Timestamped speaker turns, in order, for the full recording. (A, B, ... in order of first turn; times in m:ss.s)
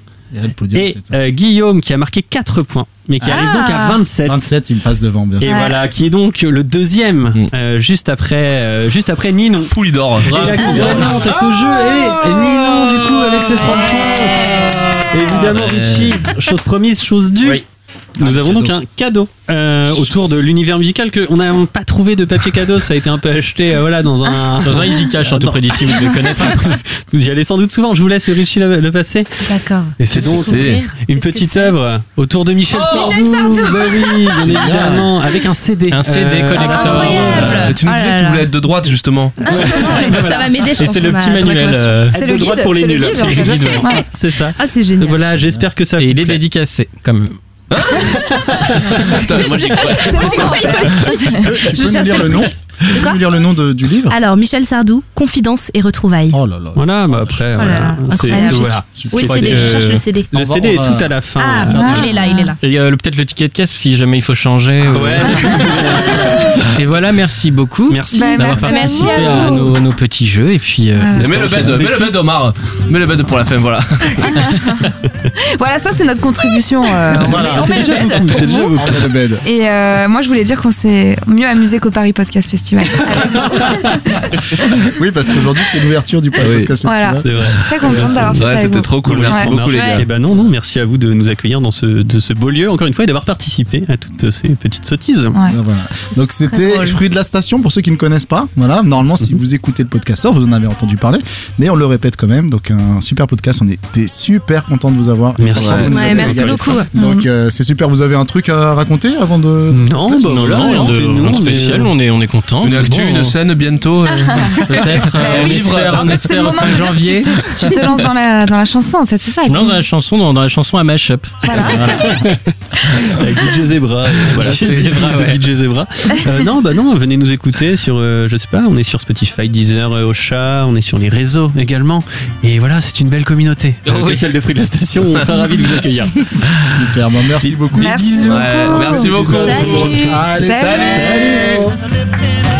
0:00.3-0:01.2 A
0:00.7-0:04.5 B
0:03.2-0:04.0 C
0:04.2-0:05.7 A
0:05.4-0:17.6 B
0:05.4-0:05.8 D
0:09.6-0:11.0 E
0:10.2-0:13.8 F
0:14.4-0:16.2 F
0:18.2-0:18.8 A
0:18.2-0:37.7 B
0:19.9-0:20.4 A
0:24.6-0:26.7 F
0:29.4-0:31.8 C
0:30.1-0:30.8 E
0:32.7-0:35.3 C
0:34.4-0:35.1 A
0:35.9-0:37.7 F
0:36.6-0:38.5 C
0:37.3-0:39.4 E
0:39.4-0:41.8 C
0:39.4-0:46.4 B
0:41.0-0:42.1 F
0:42.1-0:44.0 D
0:43.2-0:43.9 F
0:44.6-0:45.2 C
0:46.0-0:47.4 F
0:47.7-0:48.4 E
0:48.1-0:49.2 B
0:48.9-0:52.4 D
0:48.9-0:51.2 E
0:49.2-0:53.2 C
0:51.4-0:54.2 A
0:54.1-0:56.4 C
0:56.3-0:58.0 A
0:56.7-1:02.2 B
0:57.6-1:00.3 C
0:59.1-1:00.0 F
1:00.3-1:02.1 A
1:01.4-1:02.6 C
1:01.7-1:02.5 D
1:02.6-1:11.8 F
1:04.9-1:06.6 B
1:07.9-1:08.6 B
1:08.1-1:09.6 D
1:08.3-1:09.7 C
1:11.0-1:11.8 D
1:11.2-1:14.7 E
1:11.4-1:12.1 B
1:14.3-1:14.9 D
1:15.4-1:18.6 D
1:17.1-1:19.4 A
1:17.3-1:19.1 B
1:18.4-1:18.7 C
1:19.4-1:24.8 D
1:24.8-1:28.4 A
1:26.4-1:26.7 E
1:26.8-1:29.5 D
1:27.2-1:35.4 B
1:28.0-1:30.1 E
1:29.7-1:30.1 C
1:35.4-1:50.6 A
1:36.5-1:37.0 C
1:45.4-1:46.7 B
1:45.5-1:46.2 E
1:45.8-1:46.9 C
1:47.0-1:47.2 D
1:49.7-1:51.9 B
1:50.2-1:53.3 F
1:52.6-1:56.4 E
1:54.1-1:59.8 D
1:54.6-1:57.8 F
1:59.4-2:02.4 F
2:01.4-2:02.2 D
2:03.0-2:16.1 B
2:04.3-2:05.5 F
2:13.9-2:14.2 F
2:16.7-2:18.2 A
2:17.4-2:20.0 B
2:17.7-2:19.6 D
2:18.2-2:21.5 E
2:19.1-2:21.7 A
2:19.4-2:20.2 C
2:20.2-2:21.0 D